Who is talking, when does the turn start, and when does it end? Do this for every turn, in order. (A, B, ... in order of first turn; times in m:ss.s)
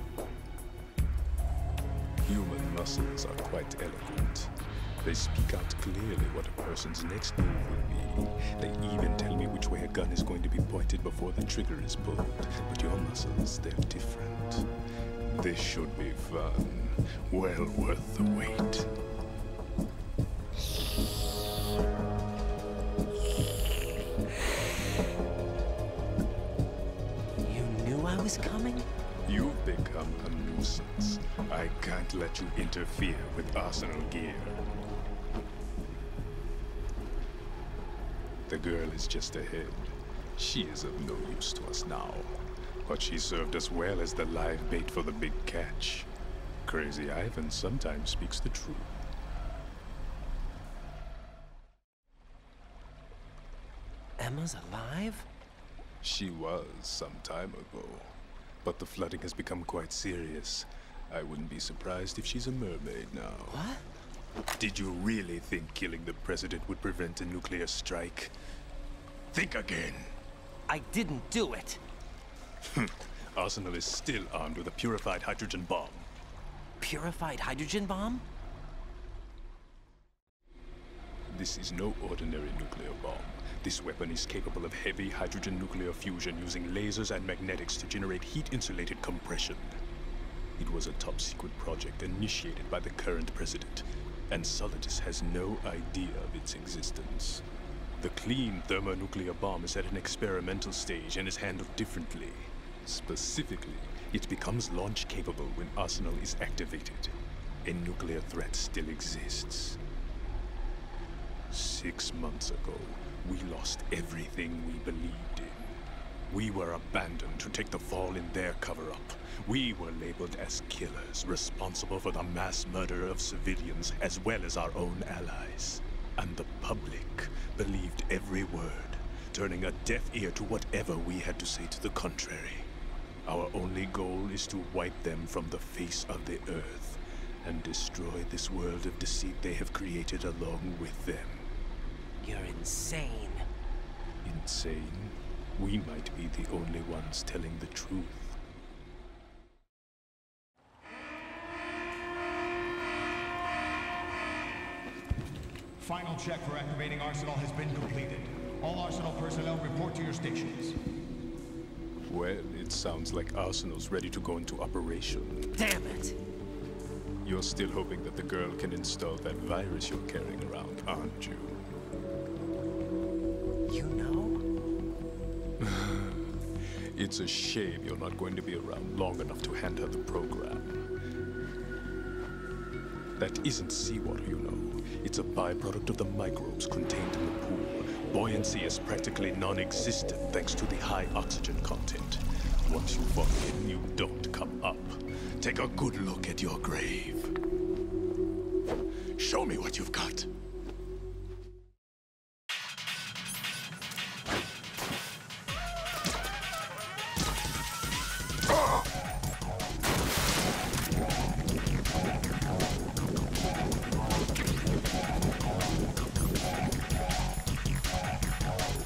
0:02.3-0:04.5 A
0:05.0-0:14.7 A
0:15.3-0:18.9 A
0:27.4-0:28.9 B
0:29.3-0:34.6 A
0:38.5-0:46.1 A
0:46.7-0:49.0 A
0:54.2-0:55.3 B
0:56.0-1:03.6 A
1:03.5-1:03.8 B
1:04.6-1:08.4 A
1:09.3-1:10.1 A
1:10.7-1:11.8 B
1:12.7-1:16.1 A
1:16.8-1:18.2 B
1:21.3-1:29.8 A
1:30.6-1:37.4 A
1:38.0-1:49.8 A
1:51.5-2:12.7 A
2:13.3-2:21.5 A
2:22.2-2:23.4 B
2:24.2-2:28.4 A
2:35.8-2:40.8 C
2:42.1-2:45.5 A
2:45.6-2:46.2 B
2:47.2-2:51.6 A
2:53.7-2:54.4 B
2:55.6-2:56.3 A
2:56.9-3:00.9 A
3:03.2-3:17.4 A
3:19.2-3:20.3 A